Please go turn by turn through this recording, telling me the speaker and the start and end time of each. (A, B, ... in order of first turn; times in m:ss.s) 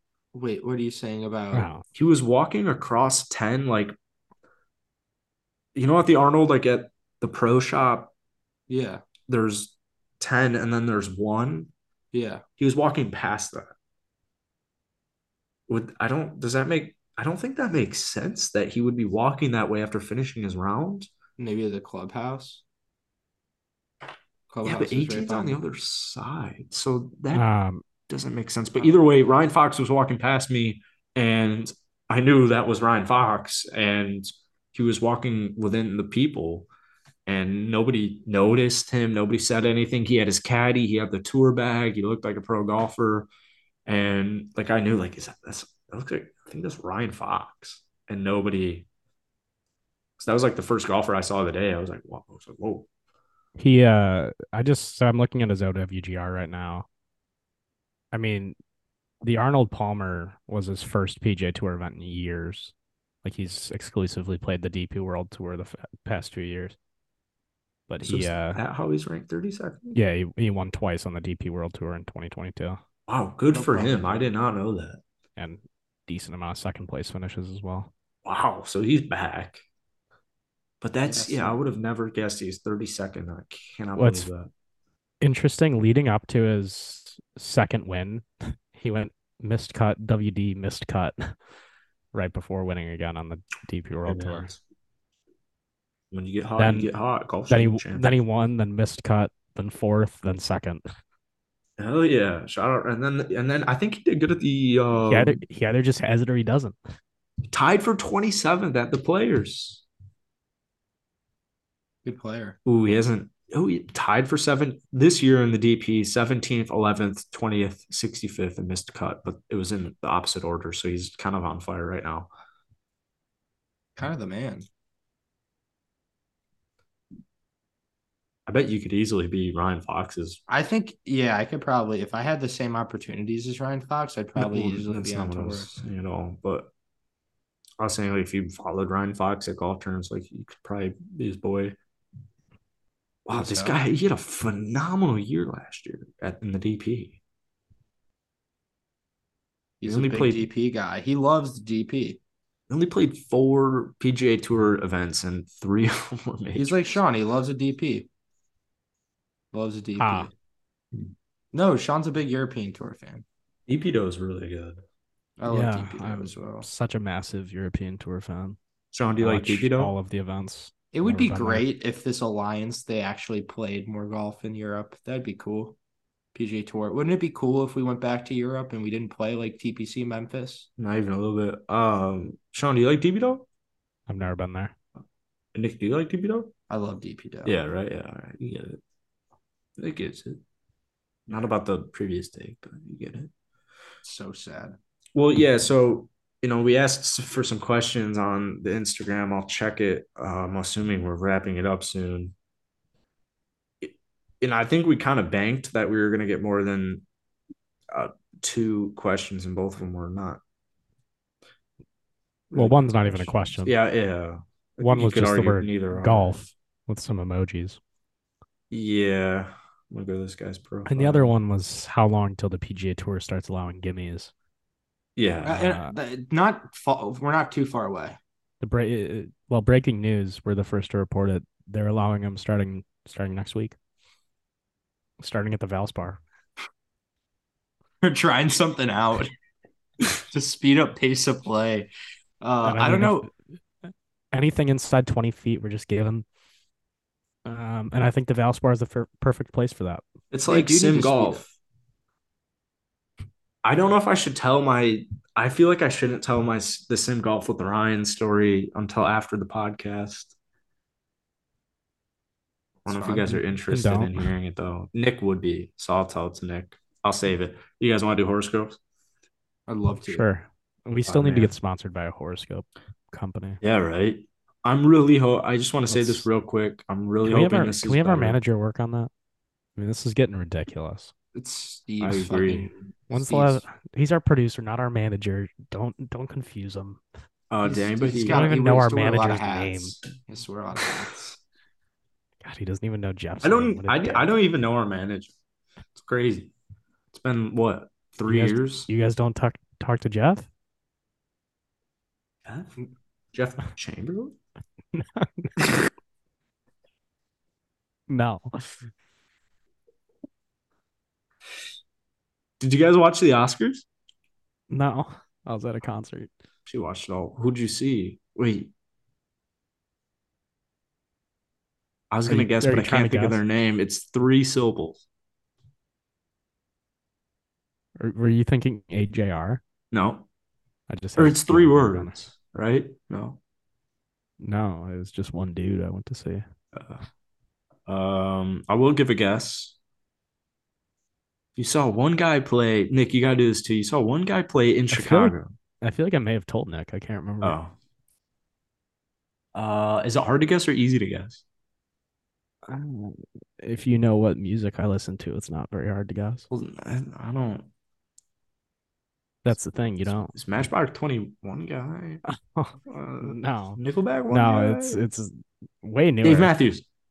0:00.3-0:01.7 A
0:01.5-0:01.8 B
0:01.9-0:03.9 C
0:05.7-0:08.1 C
0:08.7-0:09.0 A
0:09.3-0:11.7 C
0:12.1-0:12.4 A
0:12.6-0:13.7 C
0:15.7-0:21.1 C
0:21.4-0:22.6 A
0:24.5-0:25.6 A
0:24.6-0:27.4 C
0:27.3-0:27.8 B
0:28.1-0:36.7 C
0:37.2-0:43.3 C
0:43.8-0:48.9 C
0:50.2-0:52.9 C
0:53.6-0:56.9 B
0:58.1-0:58.5 B
0:59.2-1:06.8 B
1:07.9-1:08.6 B
1:08.0-1:10.0 C
1:09.9-1:12.8 B
1:13.1-1:15.0 C
1:13.5-1:14.3 A
1:15.4-1:17.9 B
1:18.2-1:19.6 C
1:20.8-1:24.5 C
1:21.1-1:21.6 A
1:24.0-1:24.3 B
1:25.2-1:31.3 B
1:32.1-1:34.5 B
1:34.0-1:34.6 C
1:36.1-1:38.1 C
1:36.6-1:36.9 B
1:37.5-1:40.8 B
1:41.8-1:45.4 C
1:45.1-1:46.8 B
1:47.5-1:49.8 C
1:52.0-1:52.6 A
1:52.6-2:02.3 C
2:04.0-2:04.7 A
2:08.5-2:10.4 C
2:10.5-2:15.7 A
2:14.4-2:16.7 C
2:17.8-2:21.8 C
2:23.2-2:27.2 C
2:23.3-2:23.8 A
2:29.8-2:32.2 A
2:29.8-2:30.5 C
2:32.7-2:37.0 C
2:36.5-2:38.1 A
2:39.5-2:40.3 A
2:40.0-2:40.3 B
2:41.5-2:43.2 A
2:43.7-2:44.8 C
2:45.4-2:46.7 A
2:45.4-2:48.6 B
2:48.9-2:49.9 C
2:49.2-2:51.6 B
2:50.9-2:55.8 A
2:56.3-3:00.7 A
3:00.8-3:03.4 C
3:04.1-3:04.7 B
3:05.5-3:06.5 C
3:06.7-3:07.6 A
3:07.4-3:08.8 C
3:09.8-3:10.4 C
3:11.3-3:13.3 C
3:14.0-3:14.8 A
3:15.1-3:22.3 C
3:23.8-3:27.0 C
3:27.9-3:30.4 C
3:32.5-3:36.4 C
3:32.5-3:33.7 B
3:34.8-3:37.8 B
3:38.7-3:41.3 C
3:40.8-3:44.3 B
3:45.2-3:45.7 C
3:45.4-3:48.2 A
3:45.5-3:45.9 B
3:48.6-3:53.8 B
3:55.2-3:56.2 B
3:58.0-3:59.3 A
4:00.3-4:01.9 A
4:02.4-4:03.3 A
4:02.6-4:03.3 B
4:04.3-4:06.2 B
4:07.4-4:10.0 B
4:10.3-4:11.5 C
4:10.5-4:11.4 A
4:13.6-4:20.3 C
4:22.8-4:28.8 C
4:22.8-4:23.4 A
4:23.7-4:24.3 B
4:29.7-4:30.2 A
4:30.0-4:33.6 B
4:31.1-4:31.5 C
4:33.6-4:38.4 C
4:35.9-4:36.3 B
4:37.2-4:39.1 B
4:39.8-4:41.1 B
4:41.3-4:43.6 A
4:42.0-4:42.9 C
4:43.1-4:47.0 B
4:47.5-4:48.5 C
4:47.6-4:51.2 A
4:48.2-4:50.0 B
4:52.4-4:54.3 B
4:53.4-4:55.3 C
4:55.9-4:56.5 C
4:57.1-4:58.9 C
4:58.3-5:00.5 B
5:02.4-5:02.8 C
5:03.3-5:04.3 C
5:04.9-5:05.7 B
5:08.1-5:08.8 B
5:12.6-5:13.8 C
5:14.7-5:16.3 B
5:16.6-5:18.7 C
5:22.1-5:25.0 C
5:22.3-5:23.4 B
5:28.0-5:29.6 B
5:29.9-5:30.2 C
5:30.9-5:32.2 B
5:31.2-5:33.4 C
5:34.4-5:36.4 B
5:36.7-5:37.0 C
5:37.9-5:39.8 C
5:41.6-5:45.5 C
5:44.9-5:47.6 B
5:47.4-5:47.7 C
5:49.5-5:51.4 C
5:52.7-5:56.5 B
5:56.5-5:57.7 C
5:59.4-6:00.3 B
6:00.0-6:02.2 C
6:02.5-6:03.8 B
6:02.8-6:05.0 C
6:04.3-6:06.6 B
6:06.2-6:06.8 C